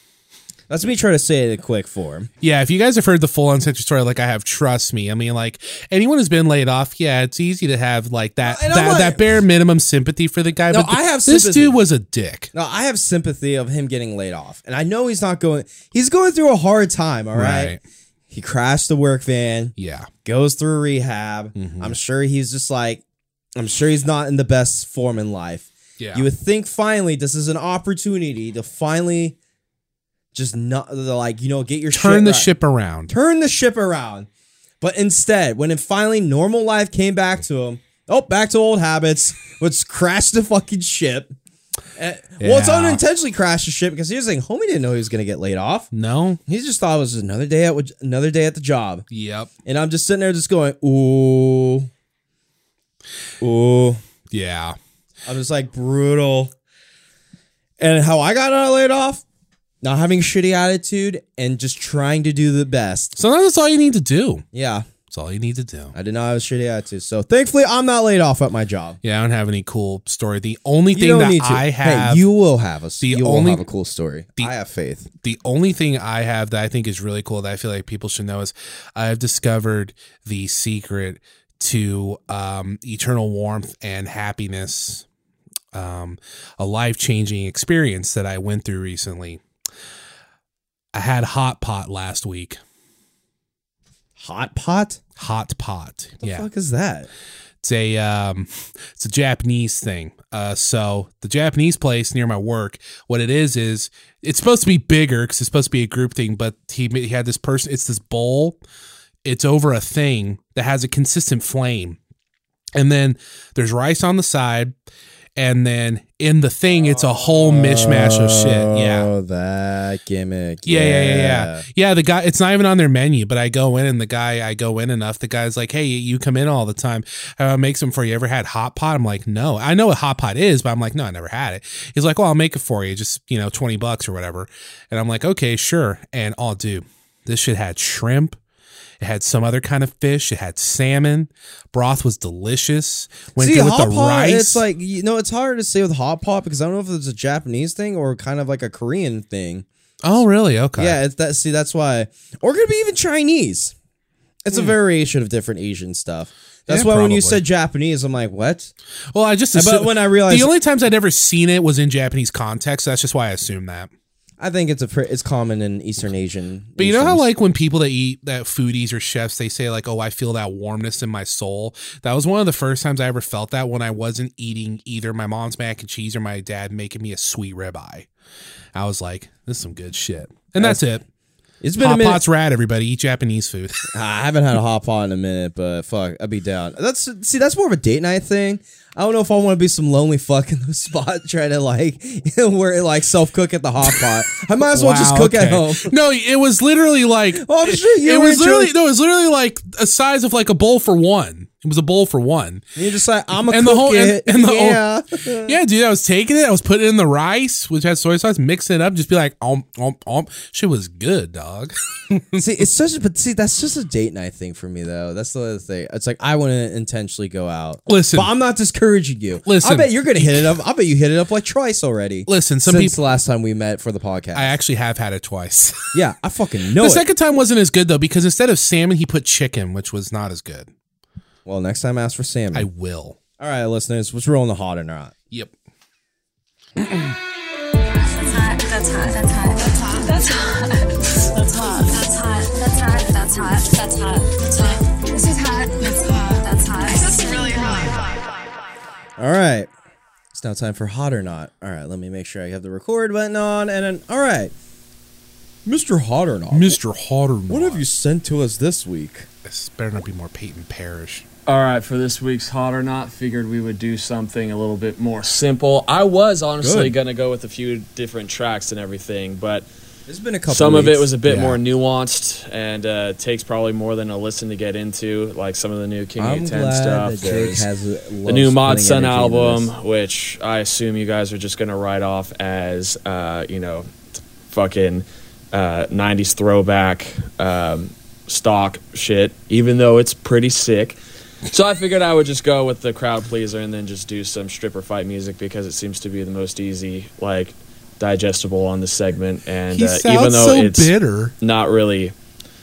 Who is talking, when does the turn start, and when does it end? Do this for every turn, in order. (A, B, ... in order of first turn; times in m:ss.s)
0:00.7-0:02.3 A
0:02.4-0:12.5 B
0:08.4-0:09.4 A
0:10.7-0:11.8 A
0:12.5-0:17.8 A
0:17.3-0:17.8 B
0:18.3-0:19.7 A
0:19.8-0:20.1 B
0:20.2-0:23.0 A
0:21.6-0:21.9 B
0:23.6-0:29.4 A
0:26.0-0:26.2 B
0:30.3-0:32.5 A
0:31.9-0:33.1 B
0:33.1-0:34.3 A
0:34.8-0:41.3 A
0:42.0-0:45.9 A
0:42.4-0:43.0 B
0:45.9-0:46.4 B
0:46.5-0:49.0 A
0:49.1-0:49.5 B
0:49.6-0:51.9 A
0:53.4-0:54.0 A
0:54.3-0:54.8 B
0:55.2-0:56.5 A
0:57.8-0:59.2 A
0:59.8-1:03.2 A
1:03.2-1:04.4 B
1:04.5-1:04.9 A
1:05.1-1:05.9 B
1:05.9-1:09.0 A
1:09.0-1:12.2 B
1:10.9-1:15.1 A
1:13.0-1:13.6 B
1:15.2-1:25.0 B
1:25.7-1:29.4 B
1:30.9-1:32.6 B
1:34.2-1:35.0 A
1:35.2-1:36.5 B
1:36.2-1:37.1 A
1:37.6-1:48.6 B
1:49.2-1:52.0 B
1:52.7-1:54.7 B
1:55.4-1:59.1 B
1:57.4-2:01.6 A
2:00.6-2:18.4 B
2:19.0-2:24.6 B
2:23.4-2:29.6 A
2:30.0-2:31.0 B
2:30.8-2:33.7 A
2:34.4-2:38.7 A
2:36.7-2:37.4 B
2:39.1-2:43.9 B
2:39.5-2:40.5 A
2:44.4-2:47.2 A
2:46.8-2:58.1 B
2:58.7-3:01.0 B
3:01.6-3:02.2 A
3:01.8-3:03.9 B
3:03.9-3:15.9 A
3:14.6-3:22.6 B
3:17.3-3:18.7 A
3:22.8-3:25.6 A
3:23.5-3:24.8 B
3:25.4-3:32.4 B
3:32.4-3:44.6 A
3:37.9-3:38.3 B
3:39.4-3:40.5 B
3:42.3-3:43.0 B
3:44.3-3:46.0 B
3:45.9-3:47.0 A
3:46.8-3:50.7 B
3:51.4-3:52.7 A
3:52.5-3:53.2 B
3:53.4-3:55.1 A
3:56.8-3:57.1 B
3:57.9-4:08.2 C
4:09.2-4:09.7 A
4:10.3-4:14.5 A
4:15.6-4:16.8 A
4:16.5-4:17.8 B
4:17.5-4:19.3 A
4:19.4-4:21.2 B
4:21.5-4:29.6 D
4:26.6-4:26.9 A
4:30.1-4:31.1 A
4:30.5-4:37.7 D
4:31.2-4:31.6 B
4:36.2-4:39.7 A
4:38.2-5:02.1 D
4:59.7-5:01.3 B